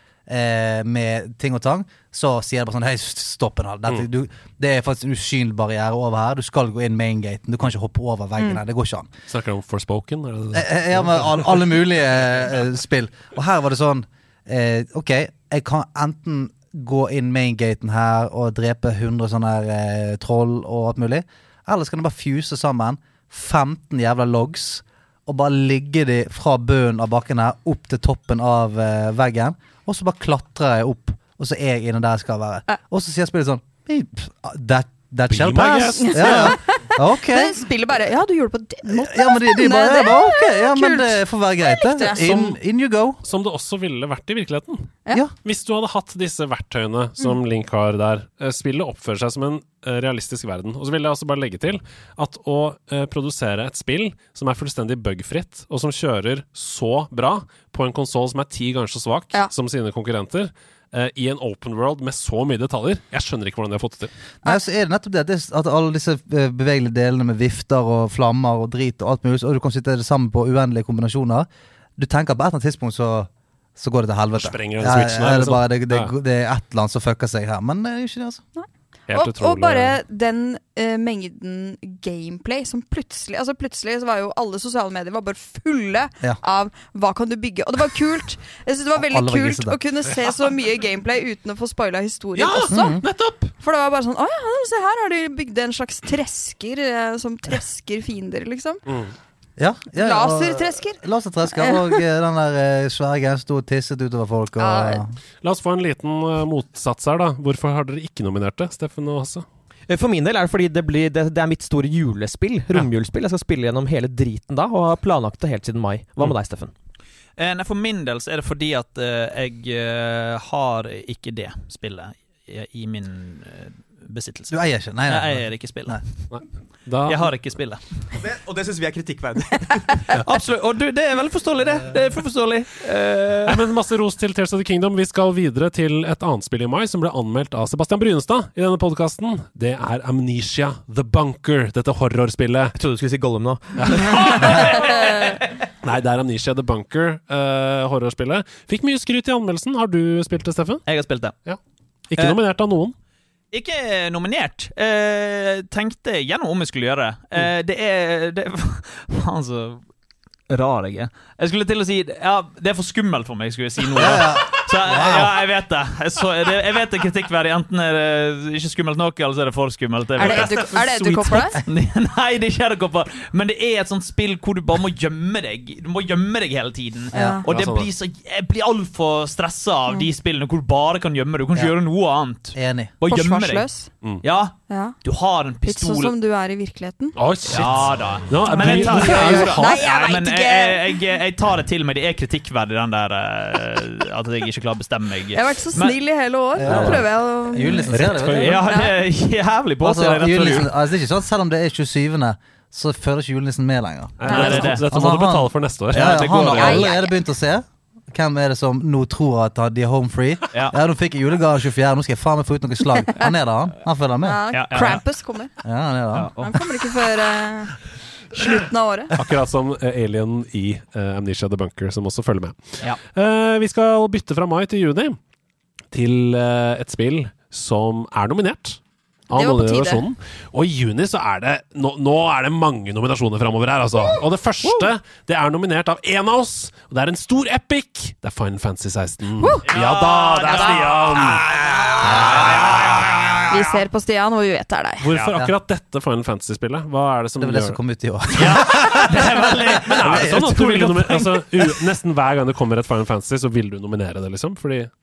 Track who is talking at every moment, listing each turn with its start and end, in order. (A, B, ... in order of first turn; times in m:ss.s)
0:00.3-0:09.1 A
0:09.3-0:11.6 B
0:10.5-0:37.6 A
0:35.3-0:36.6 B
0:36.0-0:42.6 C
0:38.8-0:43.2 A
0:43.2-1:04.1 B
1:04.4-1:18.4 A
1:14.3-1:16.1 B
1:18.6-1:33.0 C
1:19.1-1:20.0 B
1:29.0-1:29.8 A
1:32.4-1:33.5 B
1:32.7-1:33.0 A
1:33.6-1:38.8 C
1:38.9-1:39.1 B
1:39.6-1:45.2 A
1:40.0-1:41.0 C
1:41.5-1:42.0 C
1:44.6-1:45.0 C
1:45.4-1:49.4 B
1:49.9-1:56.7 D
1:57.4-2:04.5 E
2:04.5-2:06.0 A
2:05.1-2:06.1 E
2:06.3-2:07.3 B
2:07.0-2:08.1 E
2:08.1-2:10.2 D
2:10.2-2:13.6 E
2:13.4-2:22.8 B
2:22.8-2:24.7 D
2:23.8-2:25.0 B
2:25.8-2:30.8 B
2:30.8-2:31.4 E
2:32.1-2:32.9 B
2:33.5-2:39.8 E
2:40.5-3:03.7 E
2:44.0-2:45.4 A
2:50.2-2:51.6 C
2:57.1-2:57.4 A
2:57.1-2:57.5 C
2:57.5-2:57.9 B
3:02.5-3:02.9 A
3:03.1-3:03.9 C
3:04.2-3:06.1 E
3:04.7-3:05.0 C
3:05.6-3:07.2 C
3:07.2-3:09.8 B
3:07.5-3:15.9 E
3:08.5-3:11.0 C
3:09.1-3:09.5 A
3:15.3-3:18.9 C
3:16.6-3:18.6 A
3:16.6-3:17.0 B
3:17.9-3:18.7 B
3:18.2-3:20.7 E
3:19.8-3:35.0 A
3:24.2-3:26.5 B
3:24.3-3:24.6 C
3:24.3-3:24.8 E
3:25.9-3:26.9 E
3:26.5-3:27.1 C
3:32.9-3:33.3 C
3:34.2-3:35.5 C
3:34.5-3:35.0 E
3:35.6-3:36.6 A
3:36.1-3:36.5 E
3:36.4-3:37.8 C
3:38.3-3:39.1 C
3:39.1-3:45.2 B
3:45.9-4:01.5 B
3:49.3-3:50.0 C
3:59.4-3:59.7 C
3:59.7-4:03.1 E
4:02.0-4:02.9 A
4:03.5-4:05.1 C
4:05.0-4:07.8 B
4:07.4-4:10.6 A
4:08.3-4:11.4 E
4:09.9-4:14.9 B